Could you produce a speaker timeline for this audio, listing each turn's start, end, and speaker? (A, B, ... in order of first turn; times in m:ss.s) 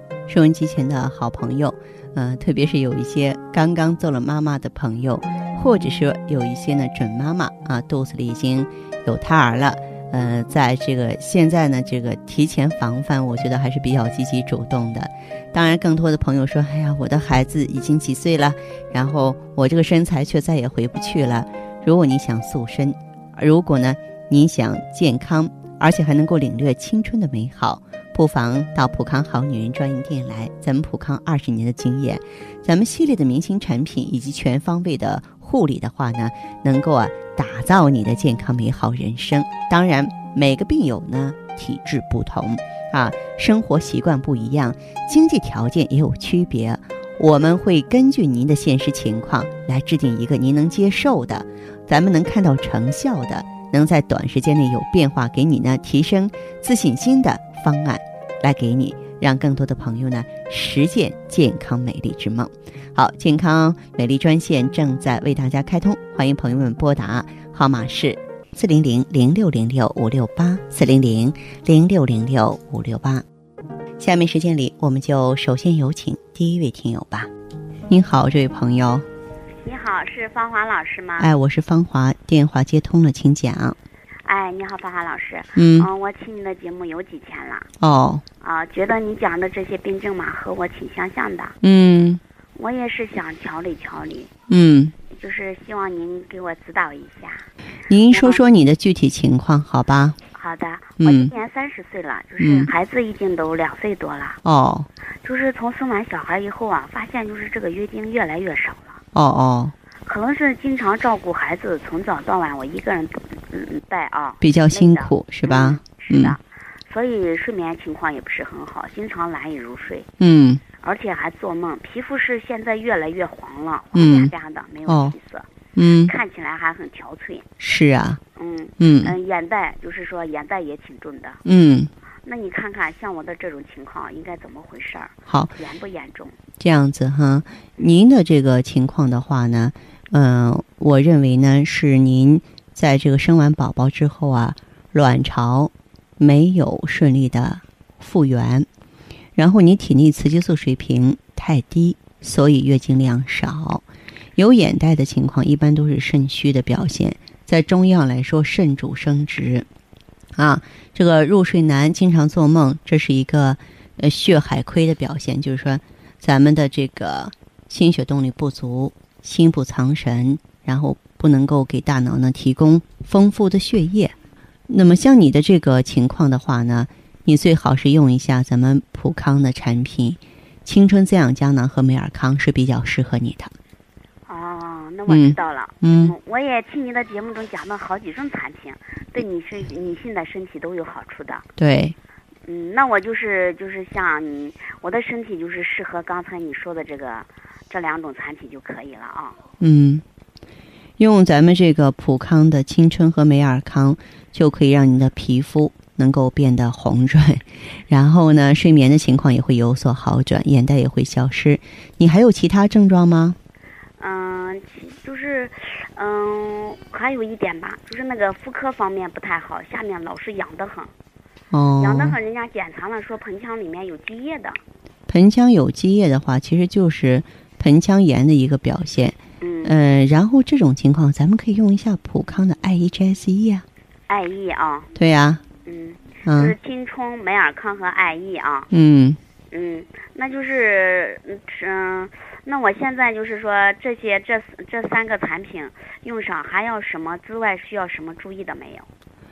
0:00.3-1:13.2 A
1:14.0-1:17.3 A
1:17.9-1:19.1 A
1:19.6-1:21.3 B
1:21.2-1:23.8 A
1:24.2-1:27.7 B
1:25.6-1:25.9 A
1:27.8-1:28.2 A
1:28.4-1:31.6 B
1:31.6-1:32.2 A
1:32.6-1:34.3 B
1:34.5-1:35.0 A
1:35.1-1:37.5 B
1:37.9-1:40.2 A
1:38.1-1:38.4 B
1:40.4-1:44.4 B
1:41.0-1:41.3 A
1:42.4-1:42.7 A
1:44.4-1:44.9 A
1:45.2-1:49.0 B
1:49.1-1:49.8 A
1:50.0-2:00.1 B
1:54.4-1:56.4 A
2:00.2-2:00.6 A
2:00.8-2:05.5 B
2:03.9-2:04.3 A
2:04.9-2:05.2 A
2:05.8-2:06.1 A
2:06.0-2:07.5 B
2:07.6-2:08.2 A
2:08.4-2:11.4 B
2:08.8-2:09.1 A
2:11.4-2:11.9 A
2:12.2-2:16.4 B
2:15.3-2:15.6 A
2:16.6-2:28.7 A
2:29.4-2:39.7 A
2:40.4-2:54.1 A
2:54.7-3:03.5 A
3:04.3-3:11.5 B
3:05.1-3:06.2 A
3:11.6-3:12.0 A
3:12.5-3:19.4 B
3:19.6-3:20.0 A
3:21.0-3:33.4 A
3:34.0-3:40.9 B
3:41.5-3:42.2 A
3:41.8-3:44.6 B
3:45.1-3:53.7 A
3:49.4-3:49.8 B
3:54.1-3:54.9 B
3:55.0-3:55.4 A
3:55.6-3:58.7 B
3:56.2-3:56.6 A
3:58.7-3:59.2 A
3:59.5-4:08.9 B